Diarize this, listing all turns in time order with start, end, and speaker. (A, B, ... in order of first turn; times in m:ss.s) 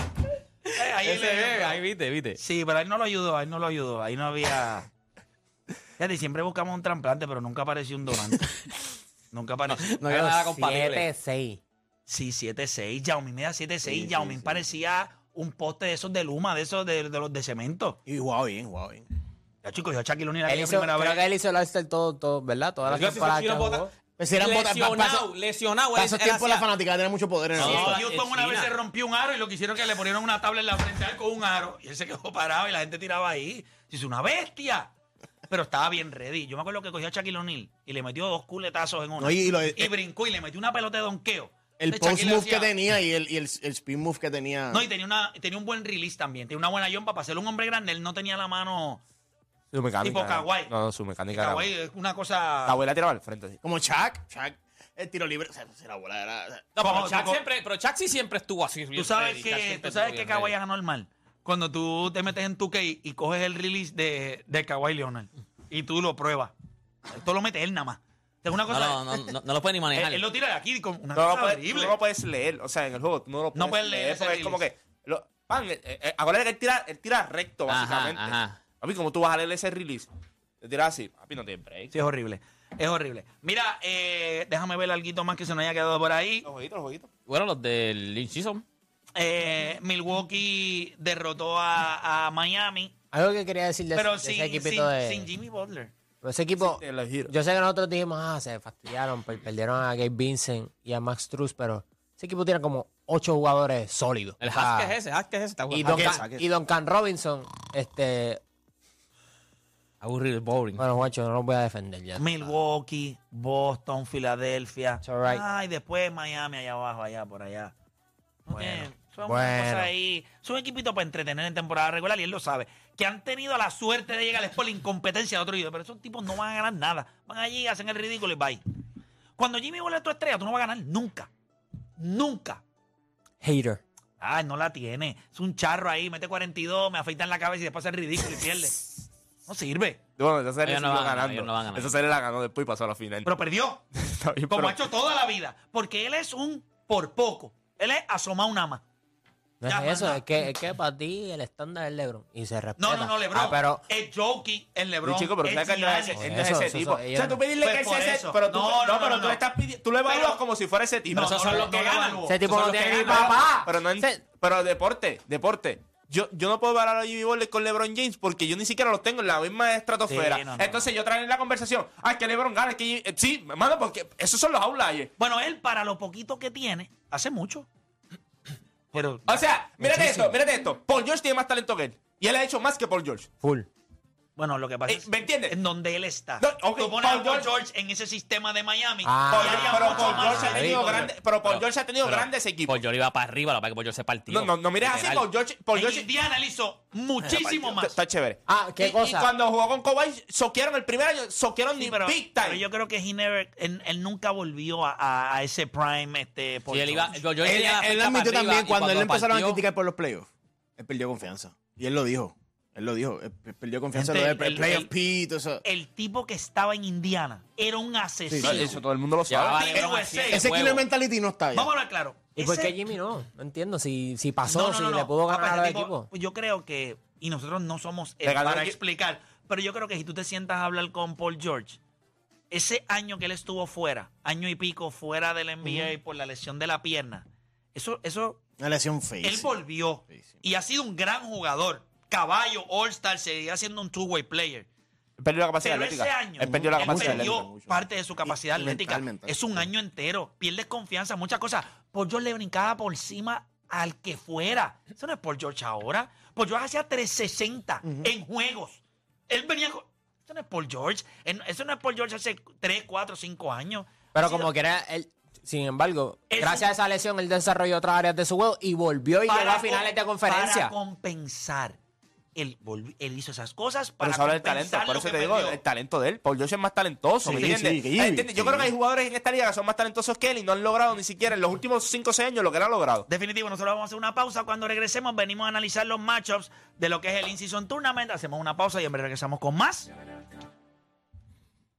0:00.7-0:01.8 A
0:01.0-0:02.4 B
0:02.4-0:04.9 A
0:06.0-0:08.6 A
0:09.3-0:10.0 A
0:09.7-0:11.1 B
0:10.1-0:11.6 C
0:12.1-0:18.0 A
0:13.8-0:14.6 D
0:18.0-0:19.0 D
0:19.6-0:21.2 A
0:20.5-0:23.9 C
0:22.8-0:26.7 B
0:24.2-0:25.3 D
0:25.9-0:28.0 D
0:27.5-0:28.7 B
0:27.6-0:34.9 A
0:35.5-0:42.7 A
0:39.2-0:39.9 D
0:41.8-0:44.8 D
0:44.7-0:49.0 A
0:49.7-0:51.7 E
0:50.0-0:50.7 A
0:51.3-0:52.8 A
0:52.6-0:53.6 E
0:53.6-0:56.7 D
0:56.8-1:00.5 B
0:56.8-0:57.4 A
0:58.9-1:06.5 A
1:07.1-1:09.3 A
1:08.7-1:10.2 B
1:09.9-1:12.0 A
1:11.1-1:20.1 E
1:13.5-1:14.6 A
1:17.7-1:18.6 B
1:20.6-1:21.9 E
1:21.9-1:26.5 A
1:26.4-1:27.1 E
1:27.3-1:28.6 B
1:29.2-1:32.9 A
1:33.1-1:35.3 C
1:33.9-1:35.9 A
1:36.2-1:44.9 C
1:36.6-1:37.3 E
1:44.4-1:46.3 B
1:45.7-1:48.4 C
1:45.9-1:46.4 D
1:50.0-1:50.8 B
1:50.8-1:52.5 C
1:52.2-1:57.7 A
1:55.0-1:55.4 C
1:58.4-2:08.6 A
1:58.5-1:59.9 C
2:09.4-2:11.3 A
2:12.0-2:12.6 A
2:13.4-2:13.8 C
2:14.2-2:18.9 A
2:19.4-2:20.0 A
2:20.2-2:23.3 E
2:20.6-2:22.0 B
2:23.2-2:23.8 A
2:23.9-2:24.8 E
2:24.5-2:28.8 A
2:29.6-2:33.8 C
2:29.6-2:30.2 A
2:32.8-2:36.3 A
2:35.0-2:55.1 E
2:36.2-2:37.4 C
2:37.6-2:39.4 A
2:40.0-2:40.4 A
2:41.1-2:42.3 A
2:41.1-2:43.5 B
2:42.2-2:44.2 C
2:50.1-2:50.9 A
2:55.2-2:57.6 A
2:58.9-2:59.4 A
2:59.3-3:03.3 E
2:59.8-3:00.3 C
3:03.4-3:03.7 C
3:04.4-3:11.1 A
3:04.9-3:05.6 E
3:06.4-3:07.5 E
3:09.0-3:11.0 C
3:09.3-3:12.8 E
3:11.4-3:15.2 B
3:14.3-3:16.1 E
3:15.7-3:18.0 A
3:17.2-3:22.6 E
3:18.5-3:19.3 C
3:21.8-3:27.2 A
3:26.7-3:29.6 B
3:27.4-3:35.6 D
3:33.9-3:34.9 A
3:35.6-3:38.8 A
3:38.3-3:38.8 D
3:38.4-3:39.8 E
3:39.3-3:40.9 B
3:39.5-3:40.5 A
3:39.8-3:41.7 D
3:41.5-3:42.8 A
3:42.4-3:46.1 C
3:44.4-3:51.8 A
3:48.2-3:48.8 E
3:52.5-3:58.4 A
3:58.6-3:59.5 D
3:59.2-4:04.7 A
4:05.2-4:07.5 E
4:05.6-4:24.5 A
4:06.4-4:09.6 D
4:17.8-4:18.1 D
4:24.1-4:30.7 C
4:26.3-4:26.7 A
4:29.3-4:31.8 A
4:32.3-4:35.6 A
4:34.0-4:43.1 E
4:37.2-4:38.7 D
4:43.1-4:49.9 A